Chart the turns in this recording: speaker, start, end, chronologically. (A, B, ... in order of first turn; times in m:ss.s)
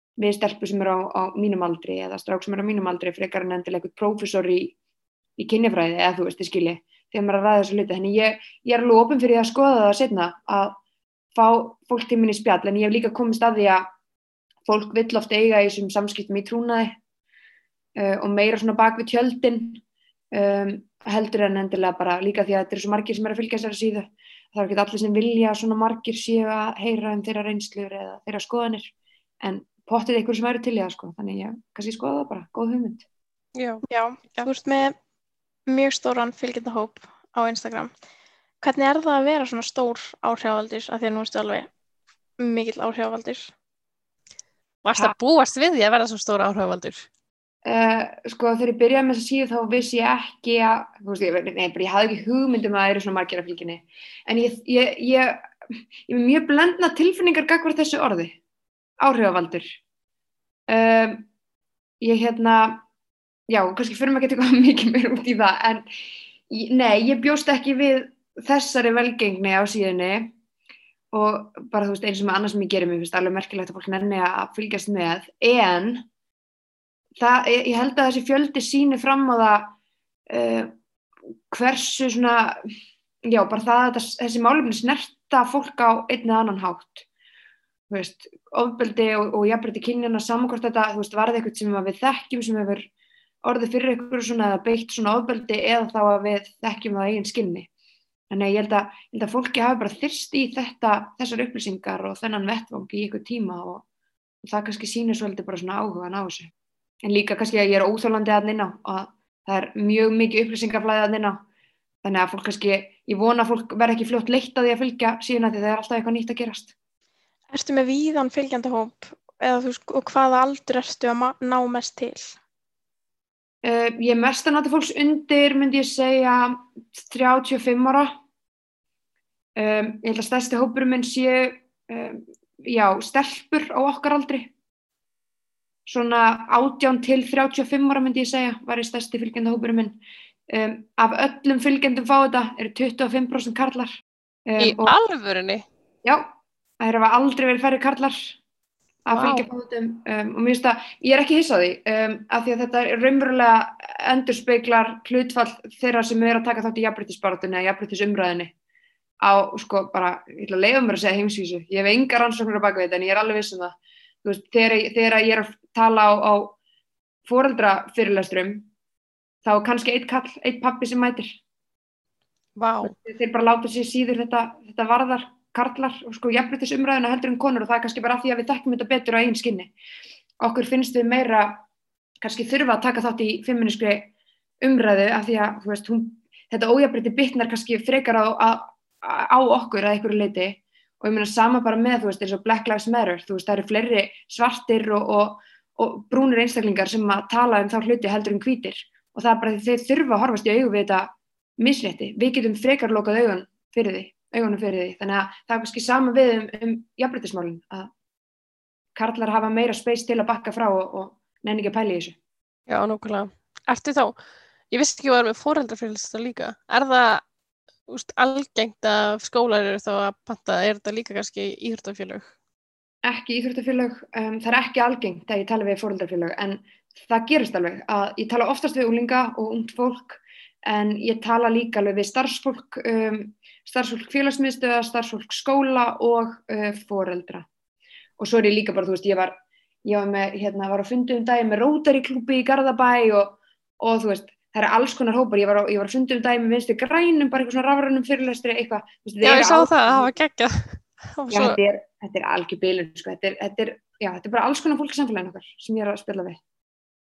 0:00.2-0:04.7 A
0:05.4-0:10.8 A
0:11.3-0:13.9 A
0:14.6-0:17.0 A
0:18.0-0:19.8 A
0:20.3-0:33.0 A
0:33.6-0:34.5 B
0:33.9-0:34.9 C
0:35.7-0:37.9 C
0:38.6-0:41.7 C
0:42.4-0:43.5 C
0:44.8-0:47.1 B
0:47.6-0:55.4 A
0:56.1-0:58.4 A
0:59.0-0:59.7 A
1:00.7-1:01.2 A
1:02.0-1:02.8 A
1:03.5-1:05.8 A
1:06.5-1:10.3 A
1:11.1-1:16.0 A
1:17.2-1:19.7 A
1:20.3-1:20.7 A
1:21.5-1:22.6 A
1:23.3-1:27.0 A
1:27.9-1:32.9 A
1:33.4-1:37.7 A
1:38.3-1:43.8 A
1:44.4-1:46.5 A
1:47.0-1:51.4 A
1:52.0-1:56.7 A
1:57.5-2:02.4 C
2:03.6-2:08.1 A
2:09.6-2:14.5 A
2:15.9-2:20.0 A
2:20.5-2:23.9 A
2:24.5-2:24.9 A
2:24.6-2:25.6 B
2:26.8-2:28.3 A
2:29.0-2:38.5 A
2:29.1-2:29.5 B
2:39.2-2:46.6 A
2:47.2-2:48.7 A
2:49.4-2:51.3 A
2:52.6-2:52.9 B
2:52.8-2:59.7 A
3:00.4-3:01.6 A
3:02.2-3:27.9 A
3:29.0-3:32.2 A
3:32.7-3:34.1 B
3:34.7-3:37.2 B
3:37.9-3:42.3 B
3:43.0-3:57.4 A
3:58.2-4:10.1 A
4:09.2-4:11.6 B
4:11.3-4:16.4 A